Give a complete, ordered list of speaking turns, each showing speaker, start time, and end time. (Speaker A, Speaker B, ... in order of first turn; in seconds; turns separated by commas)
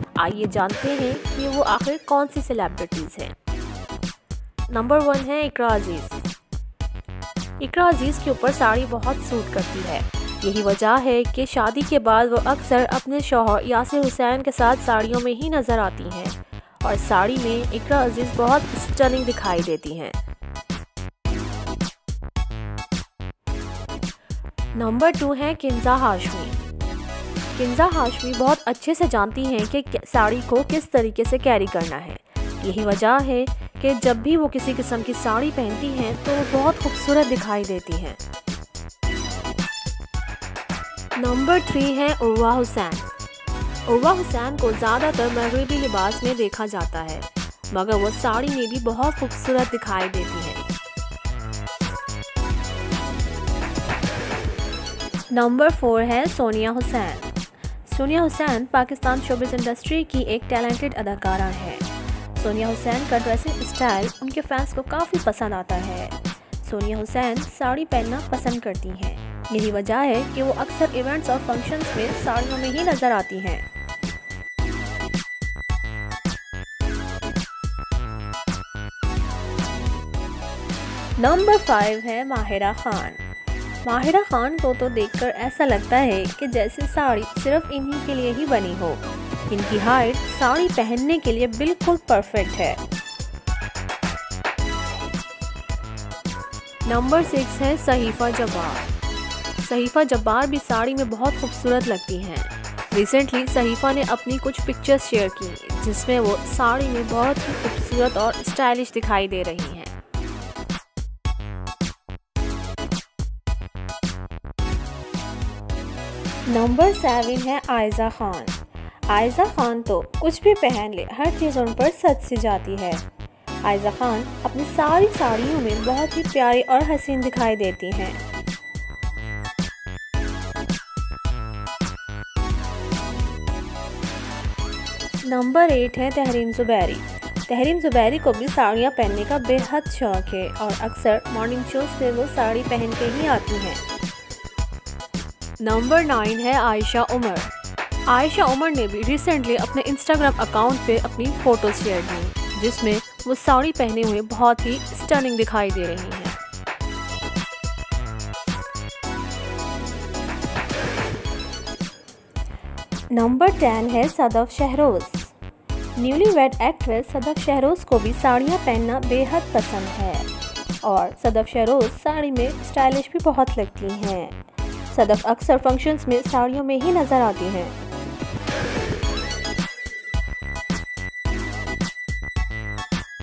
Speaker A: 0.2-3.4, Speaker A: 4.7-6.3, Speaker A: 7.6-20.2, Speaker A: 24.8-26.7, Speaker A: 27.5-38.2, Speaker A: 41.2-43.1, Speaker A: 43.9-50.6, Speaker A: 55.3-57.3, Speaker A: 57.9-73.7, Speaker A: 81.2-83.2, Speaker A: 83.8-92.8, Speaker A: 96.9-98.9, Speaker A: 99.6-110.0, Speaker A: 116.5-123.0, Speaker A: 123.6-128.2, Speaker A: 135.2-143.8, Speaker A: 145.6-147.5, Speaker A: 148.1-156.4, Speaker A: 163.1-165.3, Speaker A: 166.0-170.3, Speaker A: 170.8-174.4, Speaker A: 174.9-177.8